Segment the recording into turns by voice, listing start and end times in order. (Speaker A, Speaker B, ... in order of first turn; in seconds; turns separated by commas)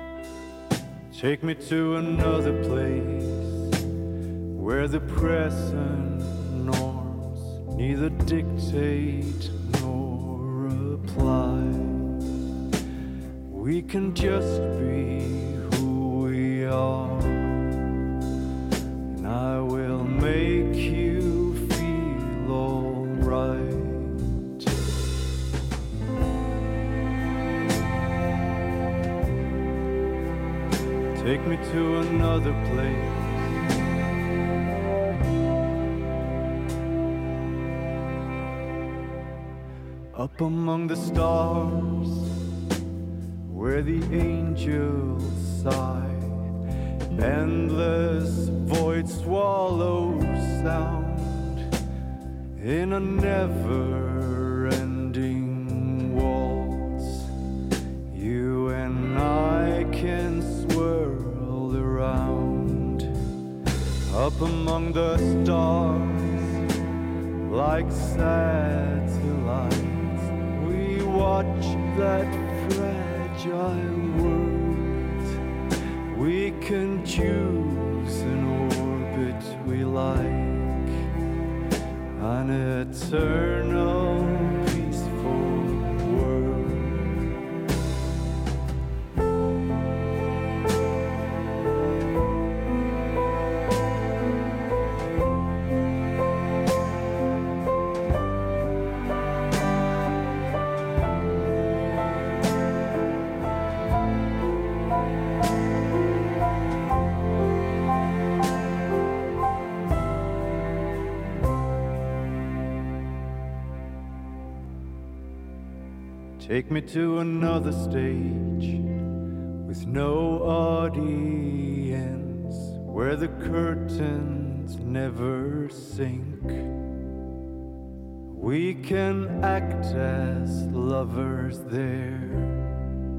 Speaker A: 1.1-3.7, Speaker A: 4.5-12.1, Speaker A: 13.5-17.7, Speaker A: 19.1-24.7, Speaker A: 31.1-33.5, Speaker A: 40.1-42.3, Speaker A: 43.5-46.5, Speaker A: 47.1-51.6, Speaker A: 52.6-57.3, Speaker A: 58.1-63.1, Speaker A: 64.1-66.6, Speaker A: 67.4-75.3, Speaker A: 76.1-81.0, Speaker A: 82.2-87.1, Speaker A: 116.4-118.8, Speaker A: 119.6-126.7, Speaker A: 128.3-132.7